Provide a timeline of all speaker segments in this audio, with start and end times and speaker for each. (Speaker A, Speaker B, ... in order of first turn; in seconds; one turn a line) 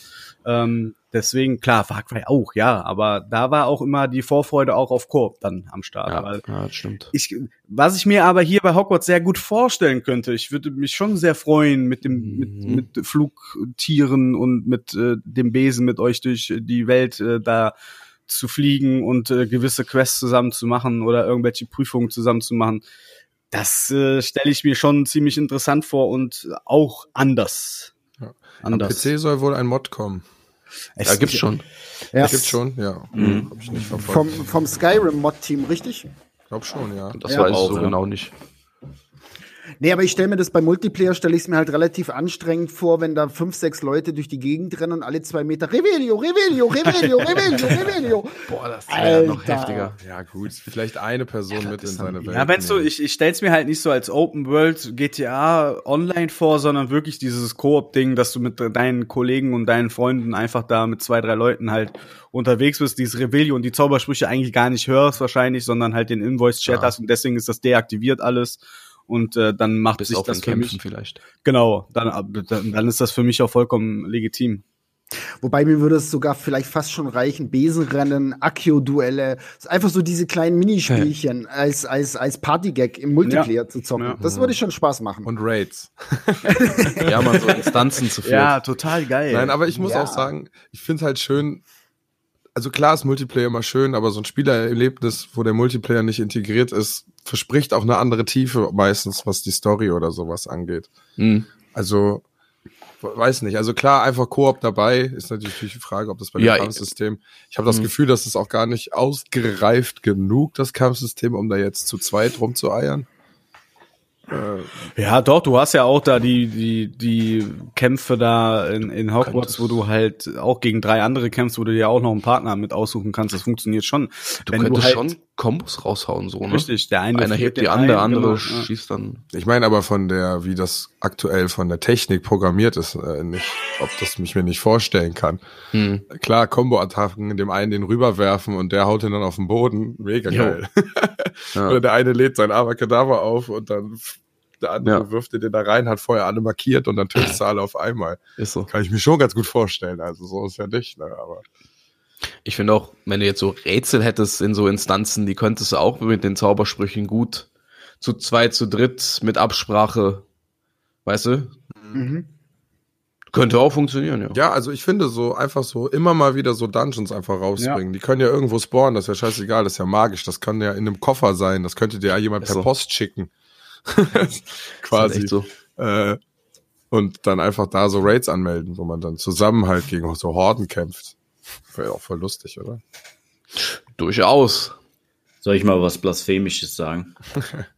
Speaker A: 0.4-6.4
Speaker B: 6.1-7.1
Speaker A: 7.1-17.7
Speaker B: 12.1-12.9
Speaker A: 18.3-22.8
Speaker A: 23.5-27.9
Speaker C: 28.2-30.2
Speaker A: 28.6-29.1
Speaker A: 31.0-31.5
Speaker B: 31.1-31.6
Speaker D: 32.1-32.6
Speaker C: 32.2-34.4
Speaker E: 33.1-33.5
Speaker D: 34.0-36.1
Speaker C: 36.5-37.2
Speaker B: 37.1-38.3
Speaker E: 37.3-38.0
Speaker D: 39.8-49.9
Speaker B: 48.5-50.0
Speaker C: 50.0-52.9
Speaker B: 51.5-52.2
Speaker A: 52.2-70.8
Speaker B: 66.6-67.0
Speaker B: 70.0-71.2
Speaker A: 71.4-74.6
Speaker D: 75.4-85.3
Speaker A: 83.2-84.2
Speaker C: 84.2-84.6
Speaker C: 85.2-87.1
Speaker D: 86.5-87.1
Speaker B: 87.0-88.6
Speaker A: 88.2-89.8
Speaker C: 89.3-91.6
Speaker D: 89.8-90.3
Speaker C: 92.5-100.9
Speaker B: 101.2-101.5
Speaker C: 101.7-102.2
Speaker C: 103.0-113.1
Speaker B: 106.4-106.9
Speaker C: 114.3-114.7
Speaker A: 115.0-125.1
Speaker B: 119.2-119.8
Speaker B: 124.5-129.2
Speaker A: 126.5-128.7
Speaker C: 129.3-135.4
Speaker B: 135.7-136.0
Speaker C: 136.1-151.4
Speaker B: 140.3-140.6
Speaker B: 141.6-141.8
Speaker B: 148.4-148.7
Speaker B: 152.4-157.5
Speaker B: 158.0-160.2
Speaker B: 161.1-161.5
Speaker D: 161.9-162.3
Speaker B: 163.3-164.4
Speaker C: 164.3-173.3
Speaker B: 172.4-172.7
Speaker C: 173.9-176.2
Speaker B: 174.9-175.5
Speaker C: 176.9-181.2
Speaker C: 181.7-182.8
Speaker B: 183.6-184.7
Speaker E: 185.4-187.1